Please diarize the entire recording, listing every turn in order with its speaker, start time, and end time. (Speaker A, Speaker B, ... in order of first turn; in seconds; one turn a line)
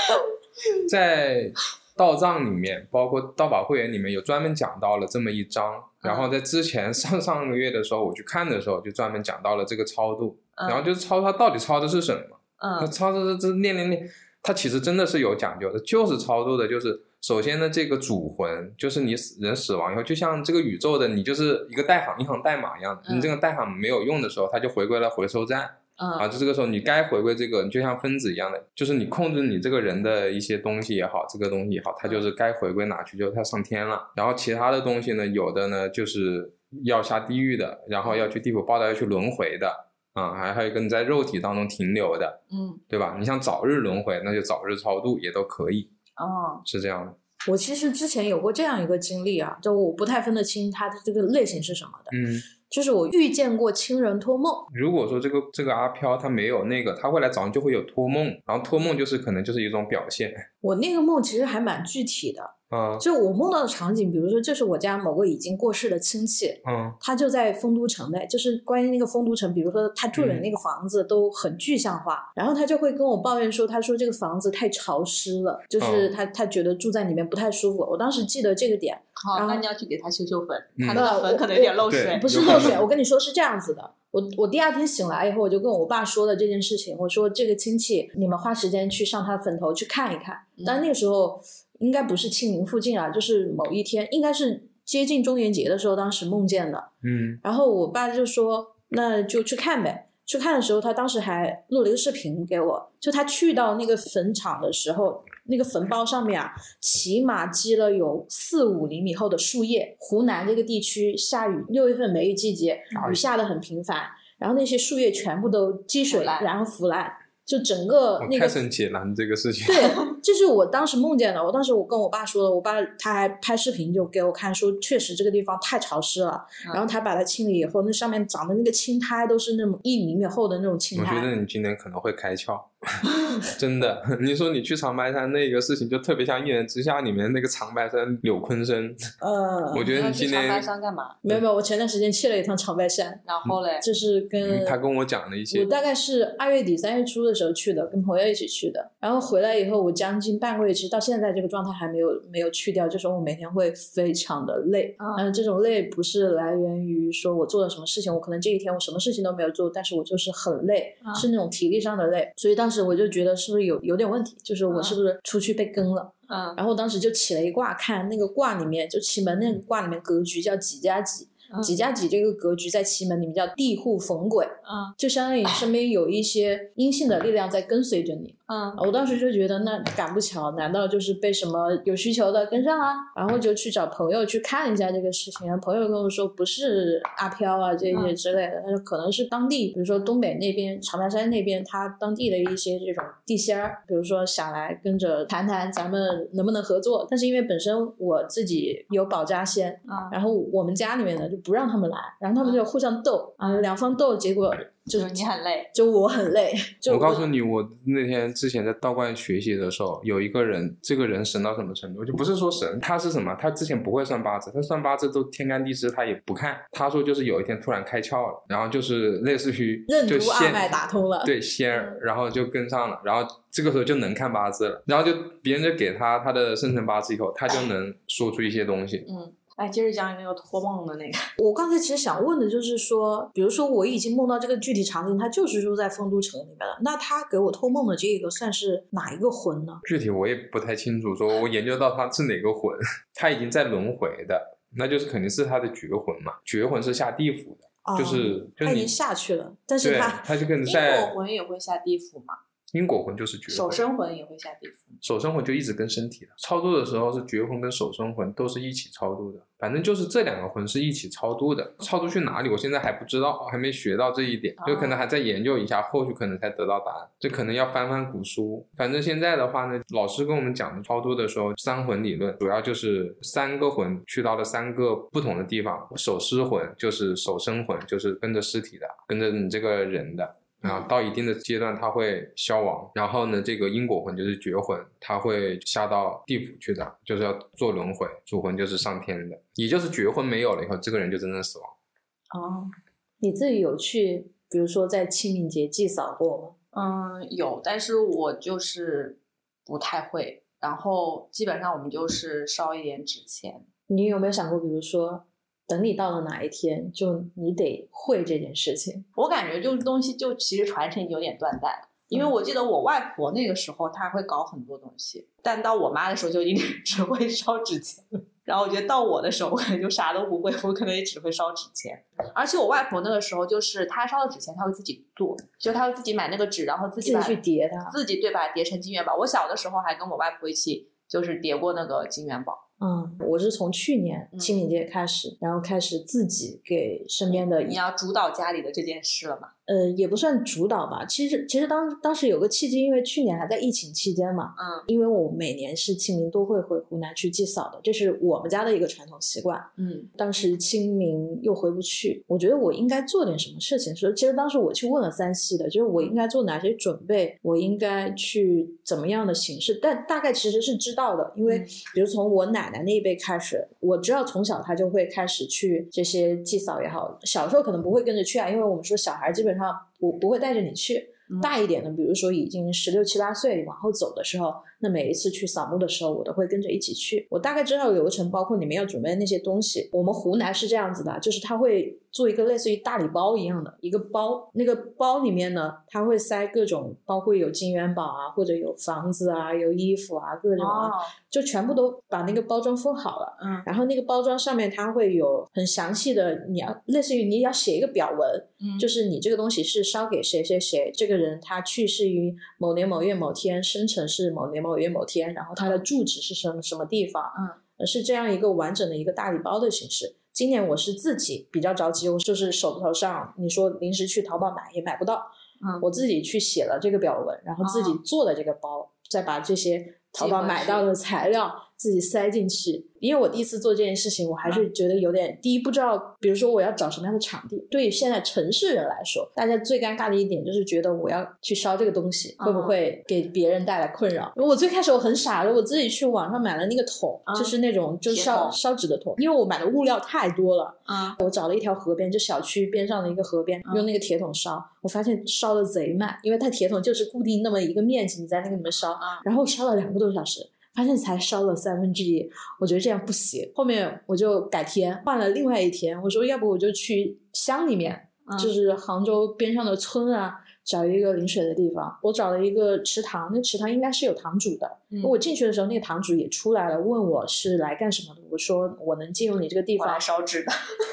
Speaker A: 0.8-45.9
Speaker B: 6.0-6.3
Speaker B: 10.6-10.9
Speaker B: 12.6-12.9
Speaker B: 23.0-23.3
Speaker B: 26.0-26.3
Speaker B: 38.0-38.3
Speaker B: 42.5-42.8
Speaker B: 46.2-46.6
Speaker A: 46.6-47.2
Speaker C: 47.5-52.1
Speaker A: 52.1-52.5
Speaker C: 52.7-54.6
Speaker A: 54.7-60.5
Speaker C: 60.6-79.6
Speaker A: 62.7-63.0
Speaker A: 66.6-67.0
Speaker A: 70.1-70.5
Speaker A: 75.8-76.1
Speaker B: 79.2-82.8
Speaker A: 80.8-81.1
Speaker C: 80.9-96.9
Speaker A: 81.8-82.8
Speaker B: 90.6-90.8
Speaker A: 97.0-97.4
Speaker C: 97.4-118.6
Speaker A: 112.9-113.2
Speaker B: 116.1-116.5
Speaker A: 118.2-120.0
Speaker C: 119.6-131.3
Speaker A: 130.9-139.0
Speaker C: 139.2-139.9
Speaker A: 139.7-140.7
Speaker B: 139.9-141.2
Speaker C: 141.2-143.2
Speaker B: 143.2-143.8
Speaker C: 143.8-144.8
Speaker A: 144.4-145.7
Speaker C: 145.5-207.3
Speaker B: 155.0-155.2
Speaker B: 164.7-165.0
Speaker B: 166.3-166.6
Speaker B: 171.5-171.8
Speaker B: 174.6-174.9
Speaker B: 178.5-178.8
Speaker B: 199.9-200.1
Speaker B: 202.4-202.6
Speaker B: 204.9-205.7
Speaker A: 206.9-229.1
Speaker C: 219.9-221.3
Speaker B: 221.7-222.0
Speaker B: 229.1-231.3
Speaker C: 231.4-239.8
Speaker A: 239.8-248.9
Speaker C: 247.8-250.2
Speaker A: 249.8-251.1
Speaker B: 250.6-252.4
Speaker A: 252.7-253.8
Speaker B: 253.5-255.0
Speaker A: 255.0-291.7
Speaker B: 264.6-265.0
Speaker B: 292.3-292.7
Speaker C: 293.2-296.5
Speaker B: 296.7-303.7
Speaker C: 303.9-309.1
Speaker B: 309.1-332.6
Speaker C: 327.0-328.0
Speaker C: 332.8-337.8
Speaker B: 334.3-334.6
Speaker B: 337.3-339.5
Speaker C: 339.7-415.3
Speaker B: 344.6-344.9
Speaker B: 349.8-350.1
Speaker B: 361.4-361.7
Speaker B: 390.6-391.1
Speaker B: 393.4-393.6
Speaker B: 398.6-398.9
Speaker C: 415.8-470.0
Speaker B: 417.6-418.0
Speaker B: 420.2-420.9
Speaker B: 432.4-432.7
Speaker B: 437.3-437.6
Speaker B: 438.1-438.6
Speaker B: 440.9-441.2
Speaker B: 449.0-449.2
Speaker B: 458.2-458.5
Speaker B: 469.8-470.5